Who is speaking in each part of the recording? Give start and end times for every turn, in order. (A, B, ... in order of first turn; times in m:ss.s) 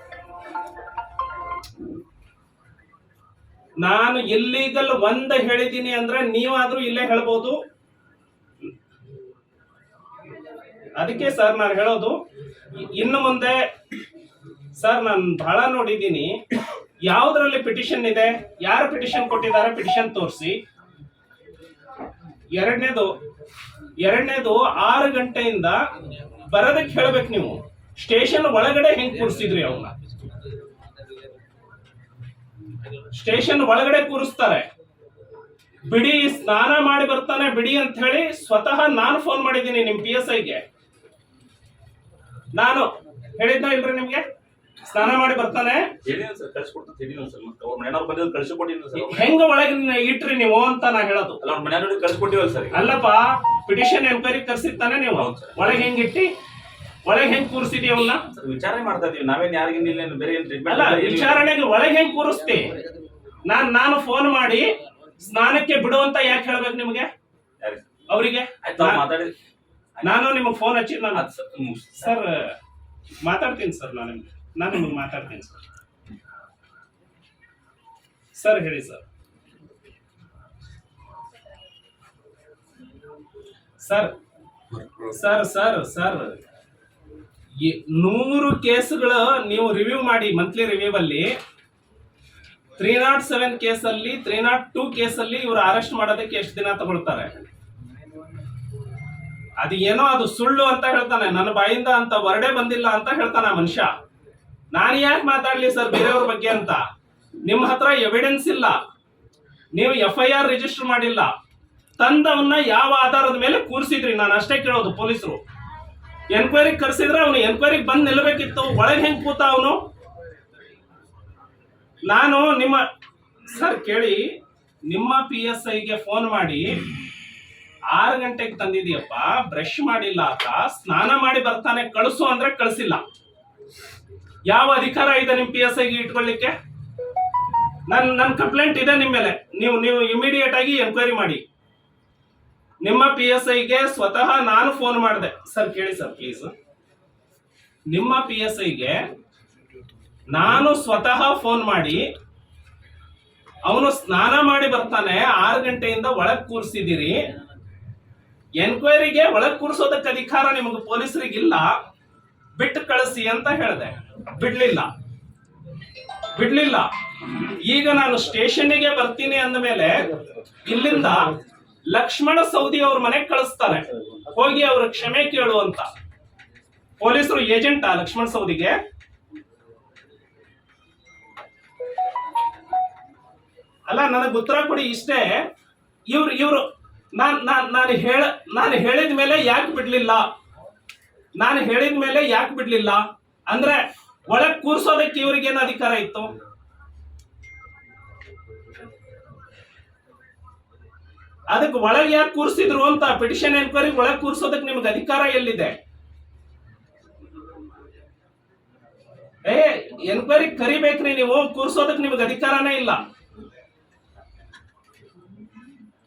0:03.8-0:07.6 A
0:11.0-0:12.2 A
0:12.8-0:13.6 A
0:14.8-0:16.4 A
0:17.1-0:20.6 A
0:22.6-0:23.1 A
0:24.0-0:25.8 A
0:26.4-0:29.9 A
0:33.1-0:34.7 A
0:35.8-0:40.6 A
0:42.6-0:44.2 A
0:44.8-0:45.9 A
0:46.0-0:49.3 B
0:49.0-0:51.4 A
0:51.4-0:52.9 B
0:52.7-0:56.3 A
0:55.2-0:55.8 B
0:57.1-0:58.2 A
0:58.3-1:01.5 B
1:00.7-1:02.8 A
1:03.4-1:07.1 A
1:07.6-1:07.9 B
1:08.1-1:09.0 A
1:08.6-1:09.3 B
1:10.0-1:11.2 A
1:11.1-1:12.1 B
1:12.0-1:12.6 A
1:13.2-1:15.6 A
1:18.4-1:19.0 A
1:23.8-1:24.1 A
1:25.1-1:26.4 A
1:27.6-1:31.3 A
1:32.8-1:37.3 A
1:39.6-1:43.9 A
1:44.7-1:46.8 A
1:47.5-1:48.8 A
1:49.8-1:51.3 A
1:52.0-1:55.4 A
1:56.3-1:59.8 A
2:02.1-2:02.8 A
2:03.5-2:04.2 A
2:04.9-2:06.8 A
2:07.9-2:13.0 A
2:14.5-2:16.5 A
2:17.9-2:21.4 A
2:22.8-2:26.5 A
2:27.9-2:29.0 A
2:30.3-2:32.0 A
2:33.7-2:37.2 A
2:38.6-2:41.7 A
2:42.6-2:44.9 A
2:46.4-2:46.9 A
2:47.5-2:50.1 A
2:50.6-2:51.3 A
2:51.9-2:55.9 A
2:57.0-2:58.8 A
3:03.9-3:05.4 A
3:06.1-3:10.3 A
3:11.4-3:16.3 A
3:21.5-3:25.8 A
3:29.5-3:33.0 A